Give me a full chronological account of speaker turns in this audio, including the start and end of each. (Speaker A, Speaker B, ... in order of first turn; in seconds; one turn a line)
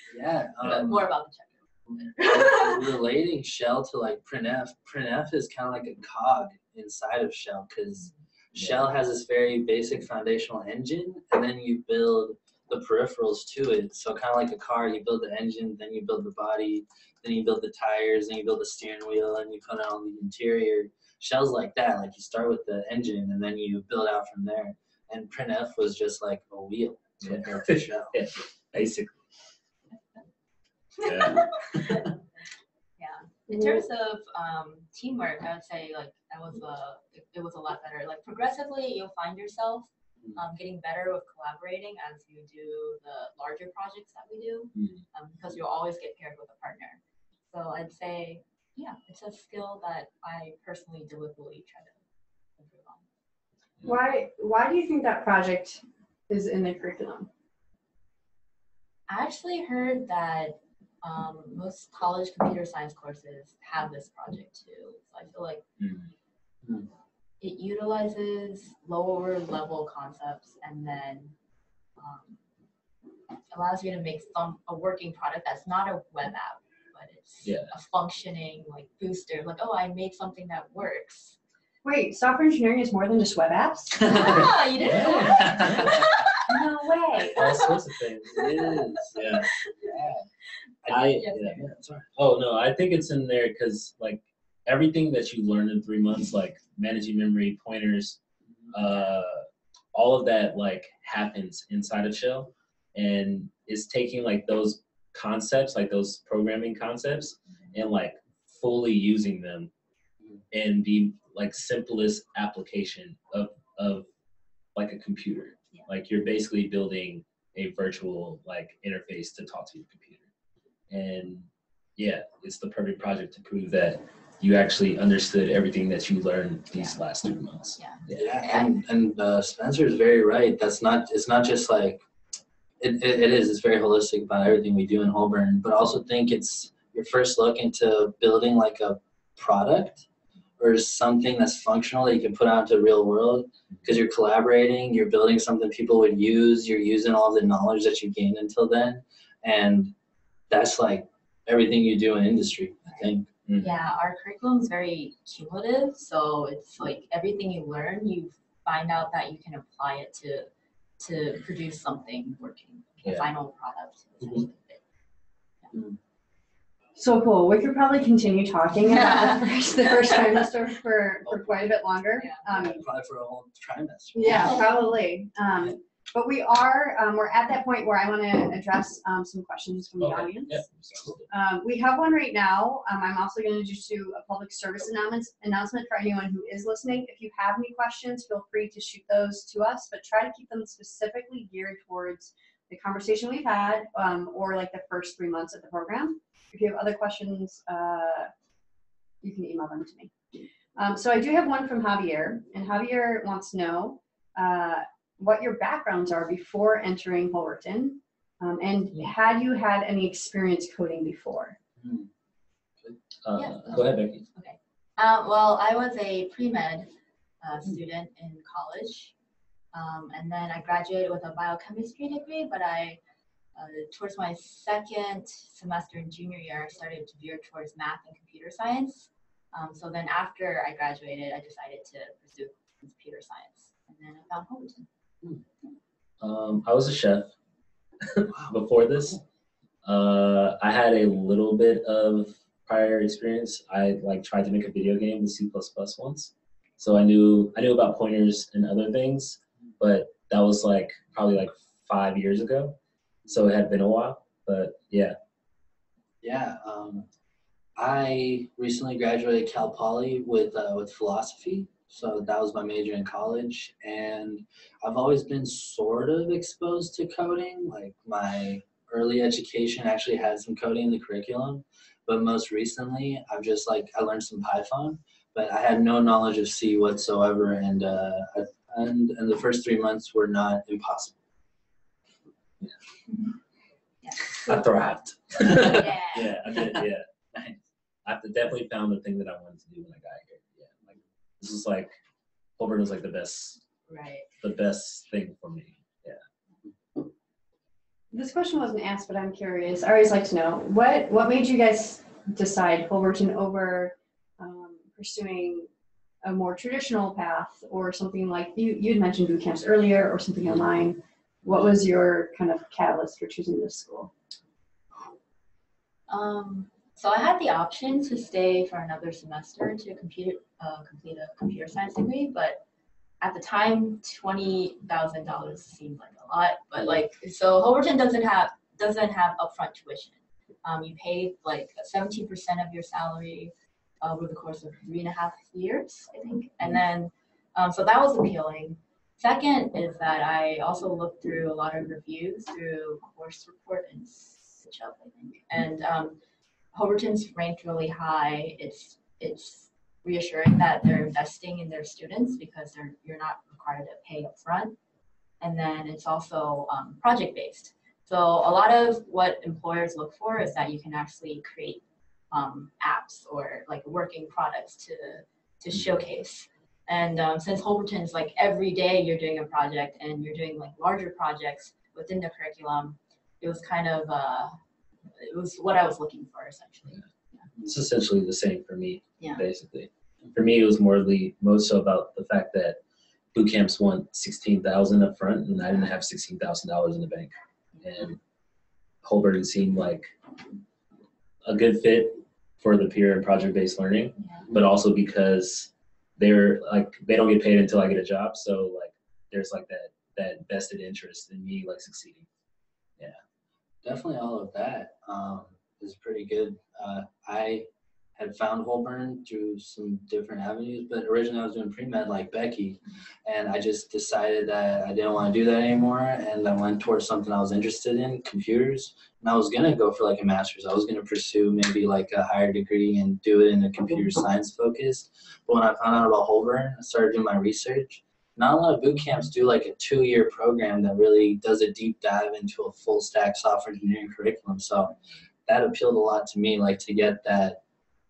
Speaker A: 0.1-1.0
Speaker B: 0.6-3.0
Speaker C: 0.6-1.0
Speaker A: 1.9-28.2
Speaker C: 27.2-29.2
Speaker B: 31.0-32.1
Speaker C: 31.0-31.6
Speaker B: 33.0-47.0
Speaker D: 33.5-33.8
Speaker C: 44.8-45.0
Speaker B: 47.5-52.0
Speaker B: 52.6-53.0
Speaker D: 53.8-57.3
Speaker B: 59.1-65.6
Speaker C: 65.8-66.1
Speaker B: 67.4-71.3
Speaker B: 72.0-72.4
Speaker B: 73.5-81.4
Speaker C: 77.4-77.7
Speaker D: 81.8-84.5
Speaker A: 84.0-84.5
Speaker B: 84.0-86.7
Speaker C: 84.2-86.0
Speaker A: 85.2-86.1
Speaker D: 86.5-87.4
Speaker B: 87.2-90.0
Speaker C: 87.3-88.5
Speaker A: 88.3-90.3
Speaker C: 89.2-89.5
Speaker A: 90.8-92.1
Speaker C: 90.9-91.6
Speaker B: 91.0-91.5
Speaker C: 92.2-98.2
Speaker C: 98.7-109.7
Speaker B: 98.8-99.1
Speaker C: 110.5-114.1
Speaker C: 114.8-120.3
Speaker C: 120.9-128.2
Speaker B: 127.8-128.8
Speaker A: 128.1-132.0
Speaker A: 132.8-140.1
Speaker A: 140.6-149.9
Speaker A: 150.5-153.3
Speaker B: 152.9-164.8
Speaker C: 153.5-153.8
Speaker A: 165.7-166.0
Speaker D: 167.0-172.8
Speaker B: 168.9-170.2
Speaker A: 171.3-171.6
Speaker A: 172.5-174.6
Speaker D: 174.2-180.7
Speaker B: 174.2-174.7
Speaker C: 180.0-181.3
Speaker D: 181.3-198.3
Speaker D: 199.2-200.1
Speaker D: 200.8-211.6
Speaker A: 211.8-212.1
Speaker C: 213.2-214.2
Speaker B: 213.3-216.9
Speaker B: 217.4-219.1
Speaker B: 219.7-223.0
Speaker B: 223.6-234.9
Speaker C: 236.2-237.3
Speaker C: 238.0-239.2
Speaker A: 238.3-238.6
Speaker C: 239.8-252.8
Speaker C: 253.3-255.1
Speaker A: 256.2-257.1
Speaker A: 257.8-281.2
Speaker B: 284.0-284.4
Speaker A: 284.3-286.0
Speaker C: 284.5-287.1
Speaker B: 285.6-286.4
Speaker A: 286.5-287.6
Speaker C: 288.1-291.9
Speaker C: 292.6-293.6
Speaker B: 293.9-294.3
Speaker C: 294.4-296.2
Speaker D: 298.1-305.7
Speaker D: 306.2-314.1
Speaker B: 316.1-322.6
Speaker B: 323.2-346.2
Speaker B: 346.7-354.8
Speaker B: 355.4-377.5
Speaker C: 377.6-382.8
Speaker B: 379.2-379.4
Speaker C: 383.3-388.2
Speaker C: 389.0-390.1
Speaker C: 391.4-402.3
Speaker B: 394.2-394.5
Speaker A: 403.8-434.9
Speaker A: 435.5-437.6